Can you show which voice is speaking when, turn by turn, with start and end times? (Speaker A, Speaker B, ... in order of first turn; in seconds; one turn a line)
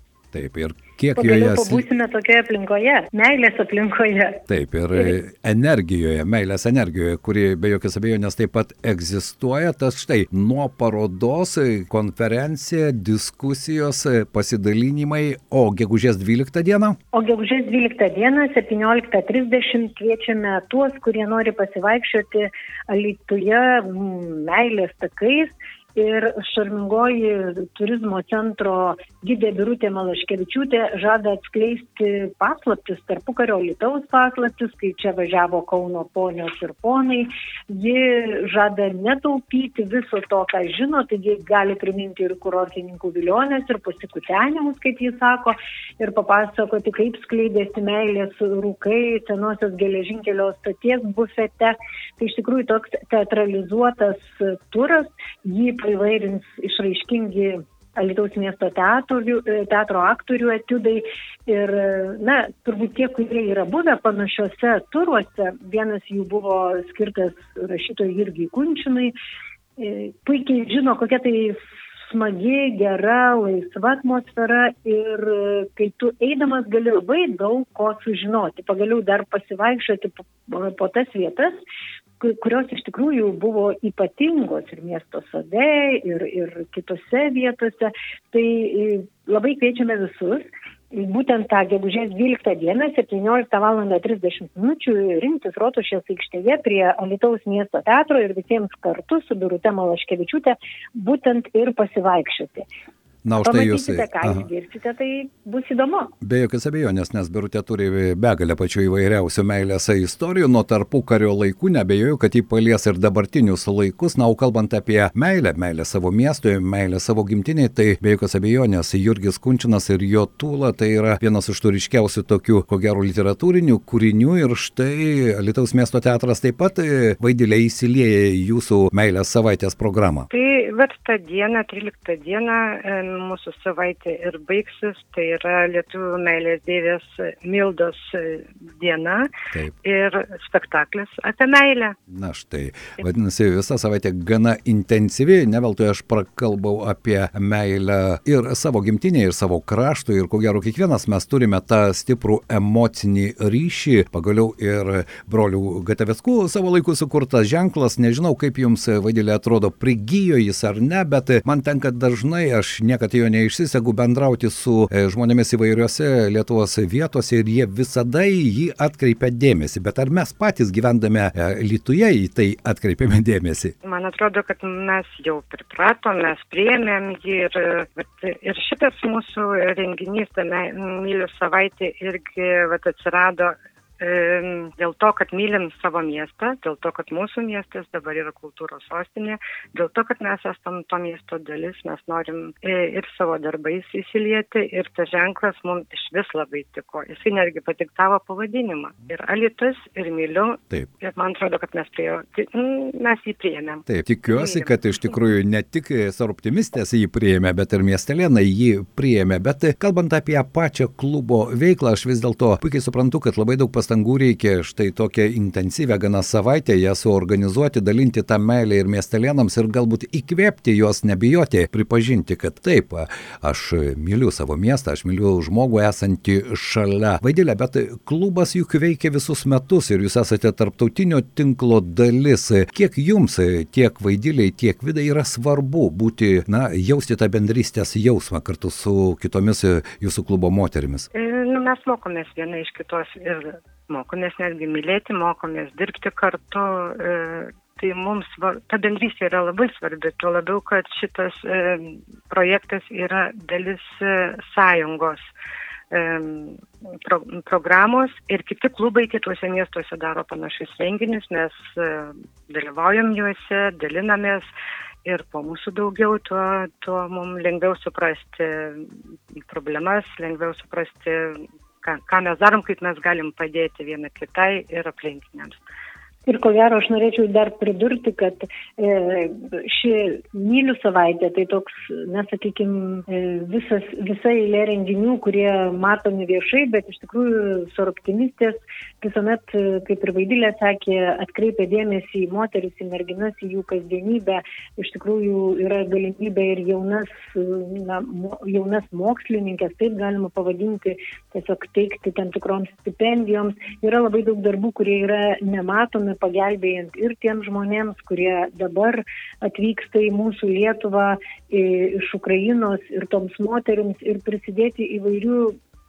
Speaker A: 0.3-1.9
Speaker B: 1.1-4.4
Speaker A: 4.5-17.0
Speaker B: 17.1-69.1
Speaker B: 69.8-71.6
Speaker B: 72.1-81.6
Speaker B: 82.2-102.7
Speaker A: 103.2-104.5
Speaker B: 103.4-106.1
Speaker A: 106.2-130.3
Speaker C: 130.3-139.3
Speaker C: 139.8-141.9
Speaker A: 142.1-173.7
Speaker C: 173.8-205.1
Speaker A: 203.8-241.1
Speaker C: 241.1-255.3
Speaker C: 255.9-264.5
Speaker C: 265.0-268.9
Speaker C: 269.4-275.6
Speaker B: 276.2-315.6